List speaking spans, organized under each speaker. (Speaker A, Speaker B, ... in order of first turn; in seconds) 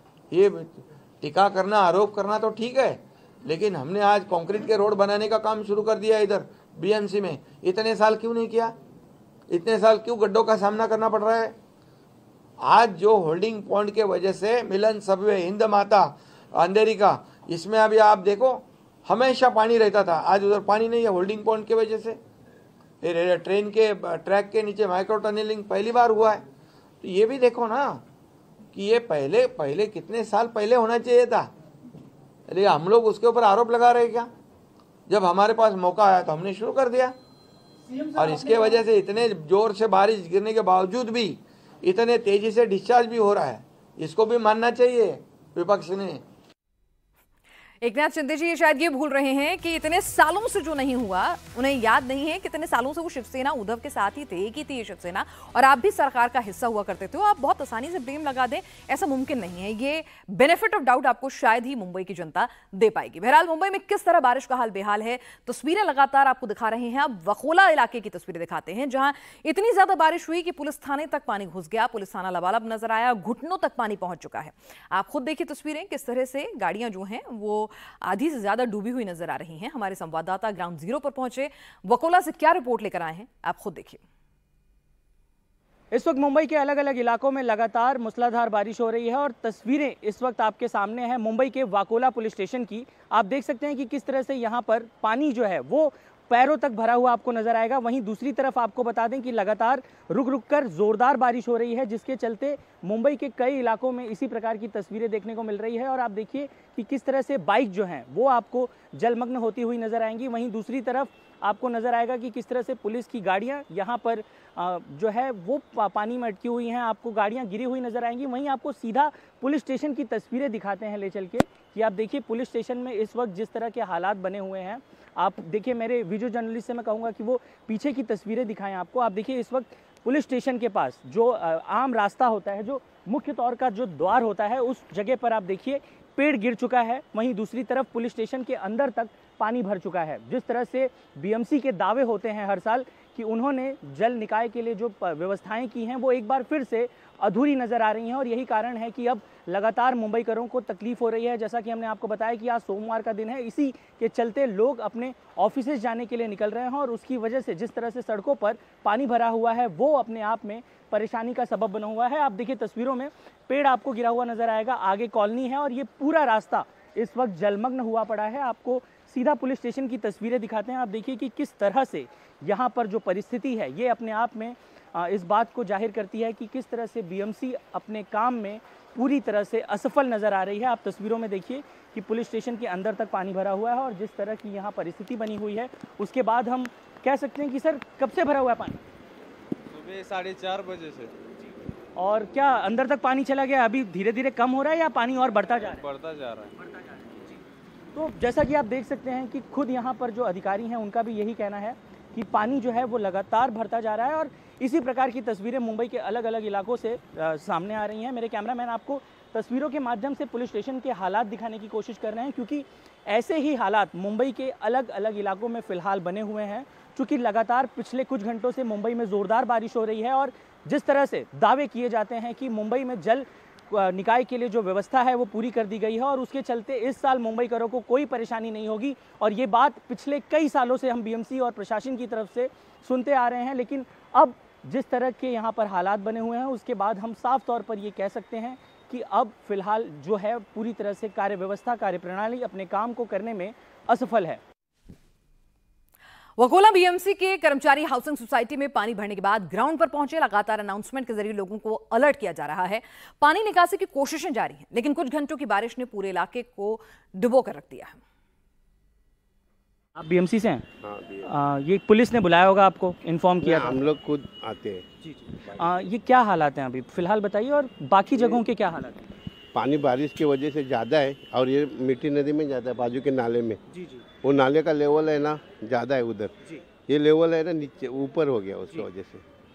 Speaker A: 0.3-8.8, 9.5-11.6, 12.6-22.2, 23.0-26.4, 27.0-28.0, 28.7-31.5, 32.5-34.3, 35.1-37.2, 38.1-46.2
Speaker B: 47.8-84.0, 246.4-258.0
Speaker C: 85.9-188.8, 191.9-195.8, 197.9-244.4, 260.0-260.6, 261.2-263.8, 265.0-269.1, 273.7-274.0
Speaker D: 189.7-191.1, 195.6-196.5
Speaker E: 260.8-261.3, 263.4-264.9, 269.5-273.6, 274.2-276.3, 276.9-279.2